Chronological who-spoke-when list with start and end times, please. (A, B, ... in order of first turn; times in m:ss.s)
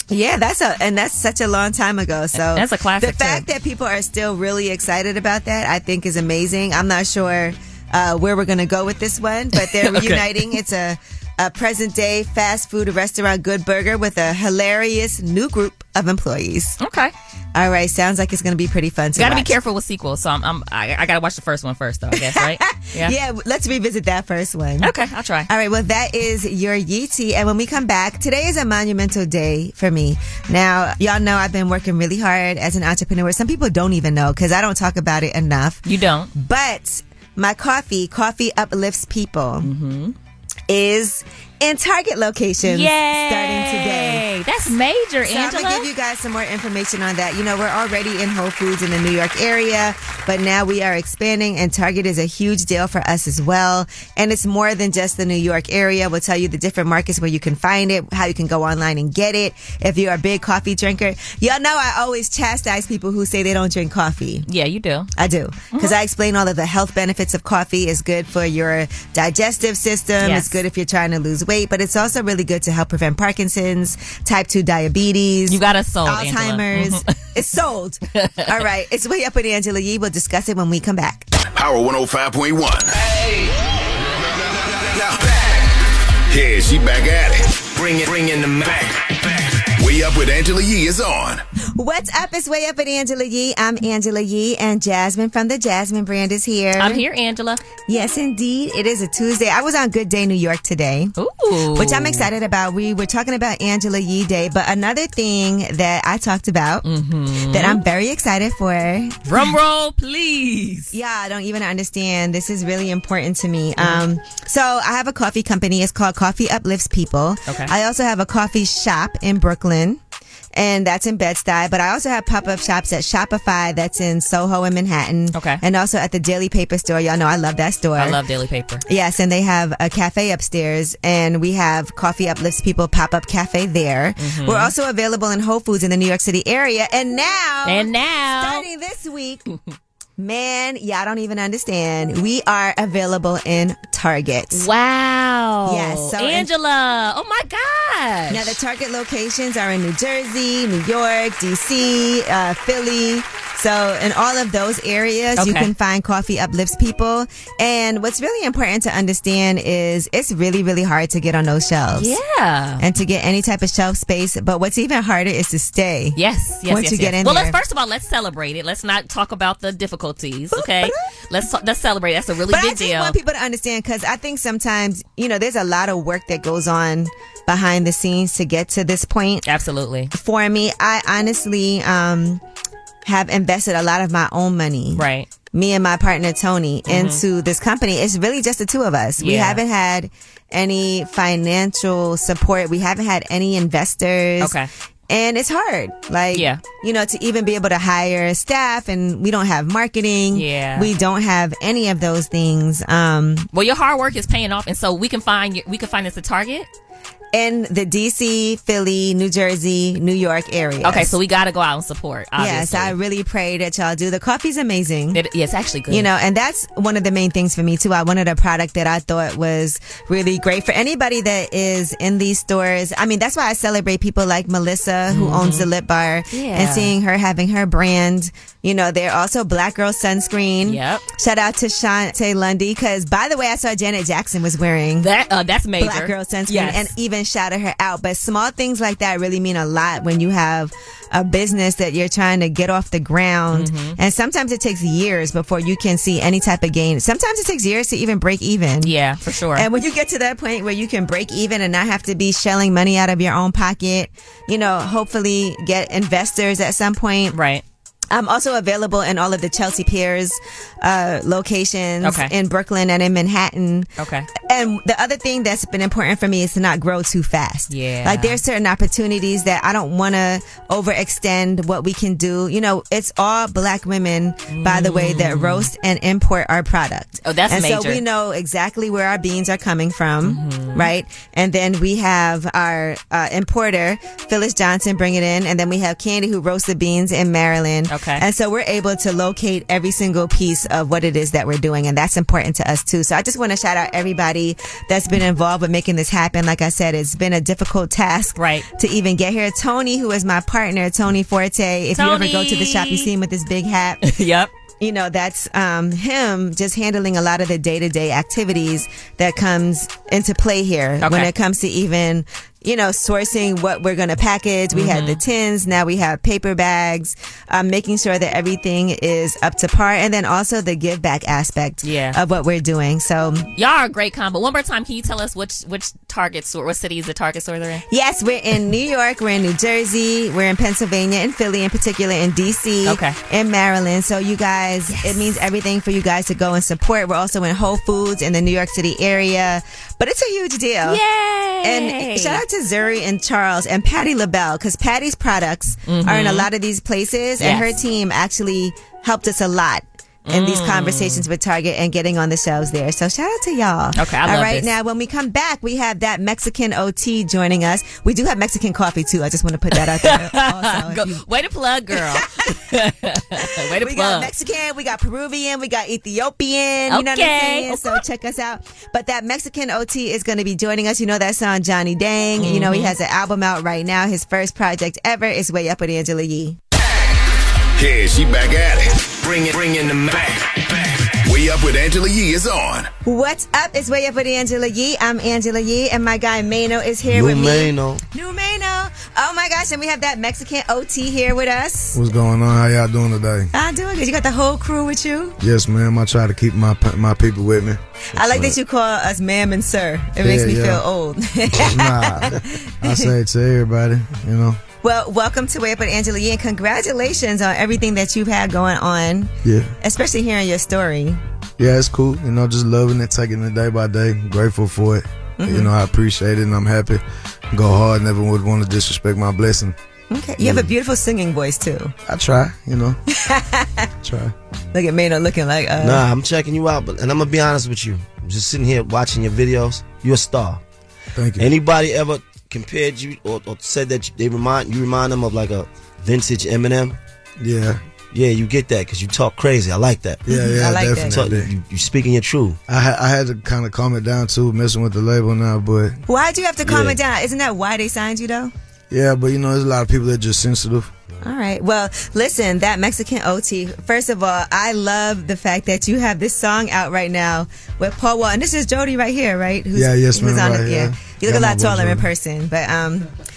0:00.1-0:16.8 A
0:02.4-0:03.5 B
0:09.6-0:10.5 B
0:16.8-0:17.1 B
0:17.6-0:19.6 A
0:19.2-0:23.1 B
0:22.1-0:24.9 A
0:24.8-0:25.5 B
0:25.5-0:39.7 A
0:35.8-0:36.3 B
0:39.6-0:40.2 B
0:40.7-0:44.3 A
0:42.6-0:45.9 B
0:45.2-1:04.5 A
1:04.5-1:05.1 B
1:05.2-1:21.3 A
1:10.2-1:10.6 B
1:15.5-1:17.1 B
1:18.1-1:18.5 B
1:21.5-1:22.9 C
1:25.0-1:25.2 C
1:26.3-1:31.4 C
1:31.8-1:37.0 A
1:36.8-1:37.6 B
1:37.9-1:41.1 A
1:41.2-1:42.3 B
1:41.7-1:46.8 A
1:46.8-1:47.8 B
1:47.5-1:49.5 A
1:49.3-1:50.9 B
1:50.9-2:00.0 A
1:53.8-1:54.0 B
1:57.5-1:57.7 B
2:00.5-2:08.2 A
2:05.3-2:05.6 B
2:08.0-2:08.8 B
2:08.9-2:19.4 A
2:14.2-2:14.7 B
2:17.6-2:18.7 B
2:20.2-2:24.7 A
2:24.5-2:28.6 B
2:25.6-2:26.5 A
2:28.3-2:42.2 A
2:35.4-2:35.7 B
2:42.0-2:42.8 B
2:42.8-2:47.6 A
2:46.2-2:53.2 B
2:50.6-2:51.0 A
2:52.5-2:59.5 A
2:59.5-3:00.1 B
3:00.1-3:02.4 A
3:03.0-3:14.6 A
3:05.0-3:05.3 B
3:06.9-3:07.2 B
3:09.2-3:09.6 B
3:14.4-3:14.7 B
3:15.1-3:23.5 A
3:16.3-3:16.6 B
3:20.3-3:20.9 B
3:23.5-3:26.7 B
3:27.3-3:31.2 A
3:30.8-3:33.0 B
3:32.4-3:35.2 A
3:35.1-3:36.1 B
3:35.9-3:55.1 A
3:45.1-3:45.7 B
3:46.3-3:46.9 B
3:50.7-3:51.0 B
3:55.0-3:56.9 B
3:55.8-4:08.9 A
4:03.5-4:04.0 B
4:08.8-4:09.7 B
4:09.6-4:17.4 A
4:17.3-4:17.6 B
4:18.1-5:04.0 A
4:22.0-4:22.3 B
4:24.0-4:24.3 B
4:27.7-4:28.4 B
4:34.5-4:35.7 B
4:37.2-4:38.0 B
4:40.2-4:40.9 B
4:47.9-4:48.2 B
4:58.4-4:58.7 B
5:02.0-5:03.1 B
5:04.0-5:04.5 B
5:04.8-5:23.5 A
5:11.0-5:11.3 B
5:14.7-5:15.2 B
5:21.8-5:22.2 B
5:23.6-5:27.8 B
5:27.9-5:41.0 A
5:32.8-5:33.2 B
5:34.9-5:35.2 B
5:40.8-5:42.4 B
5:41.6-6:01.2 A
5:45.9-5:46.5 B
5:47.4-5:47.7 B
5:50.3-5:51.3 B
5:54.0-5:54.7 B
5:59.8-6:04.3 B
6:01.9-6:02.6 A
6:03.4-6:16.6 A
6:06.9-6:08.0 B
6:12.4-6:12.9 B
6:17.8-6:22.9 C
6:23.0-6:32.0 A
6:27.0-6:28.0 D
6:32.0-6:33.5 E
6:33.5-6:35.4 A
6:35.4-6:38.6 E
6:38.2-6:43.1 A
6:40.2-6:40.8 E
6:41.6-6:44.6 E
6:44.8-6:51.2 A
6:49.4-6:49.7 E
6:51.6-6:59.8 E
6:55.4-6:55.7 A
7:00.1-7:01.9 A
7:00.4-7:00.7 D
7:02.1-7:03.0 E
7:03.1-7:03.9 A
7:04.0-7:04.3 E
7:04.7-7:06.0 A
7:05.8-7:10.6 D
7:11.2-7:11.5 E
7:11.4-7:17.0 D
7:17.4-7:17.8 E
7:18.1-7:20.3 D
7:20.3-7:21.5 E
7:20.3-7:21.3 A
7:21.0-7:22.6 D
7:22.7-7:26.0 E
7:26.1-7:28.5 A
7:26.6-7:27.0 D
7:28.9-7:30.9 E
7:31.2-7:43.1 A
7:39.8-7:42.1 E